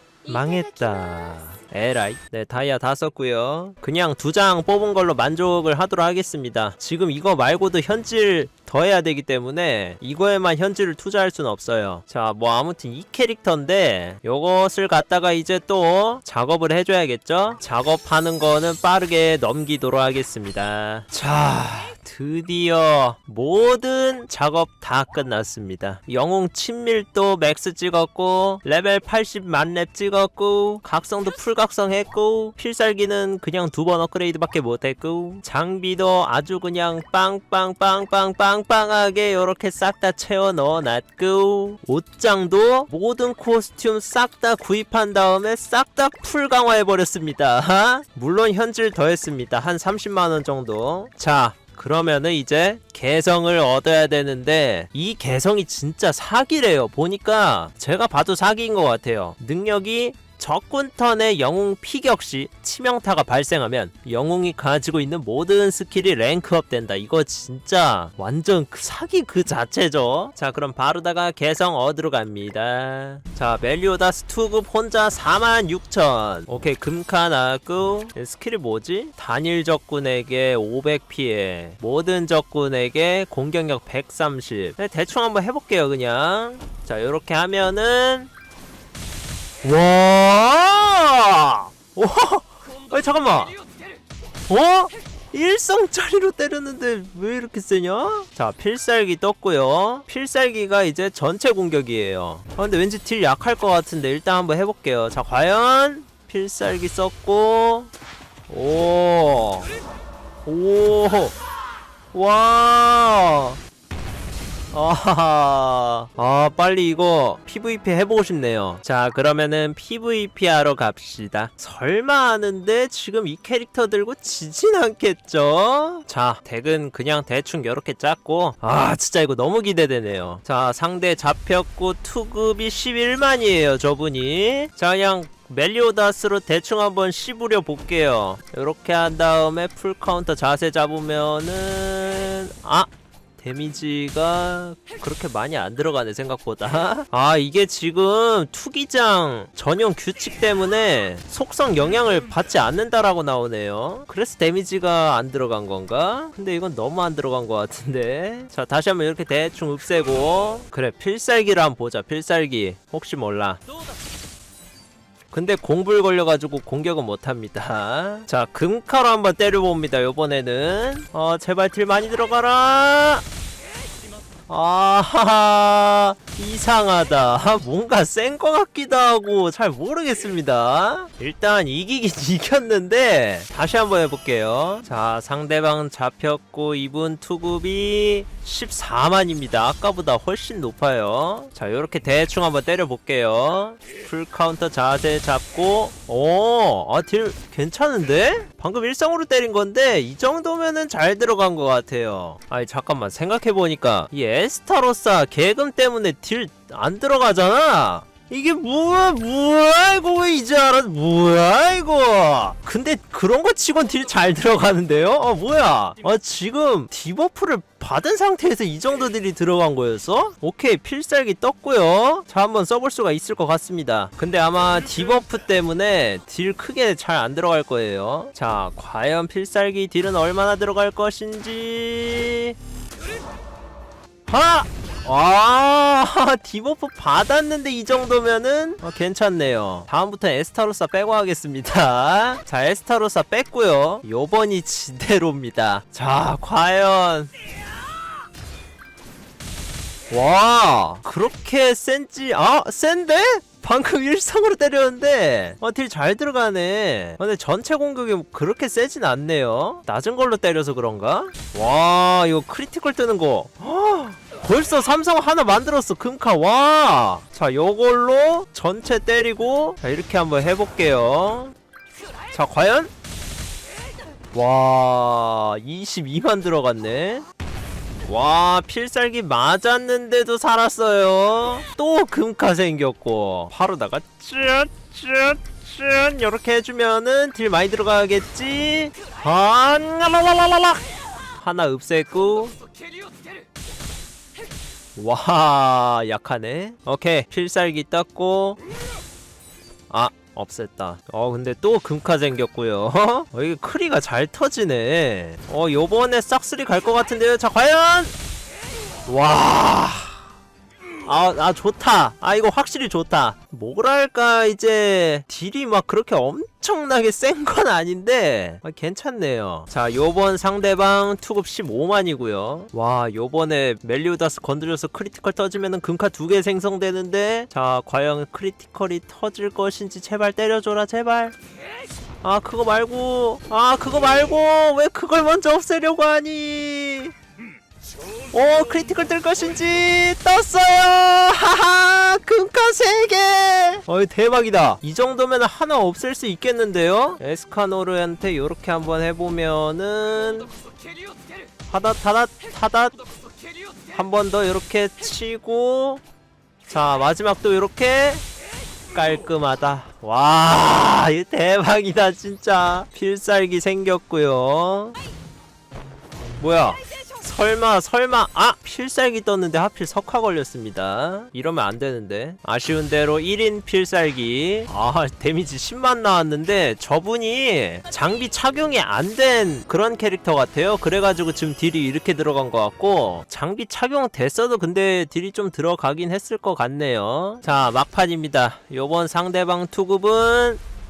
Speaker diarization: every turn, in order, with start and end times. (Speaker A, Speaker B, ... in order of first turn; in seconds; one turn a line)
Speaker A: 0.3-88.3
Speaker A: 89.6-93.6
Speaker A: 94.5-107.9
Speaker A: 108.5-109.7
Speaker A: 110.5-111.3
Speaker A: 112.1-113.6
Speaker A: 114.7-163.6
Speaker A: 165.3-173.2
Speaker A: 174.5-232.6
Speaker A: 234.3-247.3
Speaker A: 250.1-271.5
Speaker A: 272.3-272.9
Speaker A: 274.3-277.2
Speaker A: 278.1-292.6
Speaker A: 295.0-298.6
Speaker A: 299.9-308.1
Speaker A: 309.1-310.2
Speaker A: 311.0-331.4
Speaker A: 332.2-337.1
Speaker A: 338.3-350.5
Speaker A: 351.7-353.0
Speaker A: 353.9-356.0
Speaker A: 356.7-358.2
Speaker A: 358.9-365.0
Speaker A: 366.4-390.6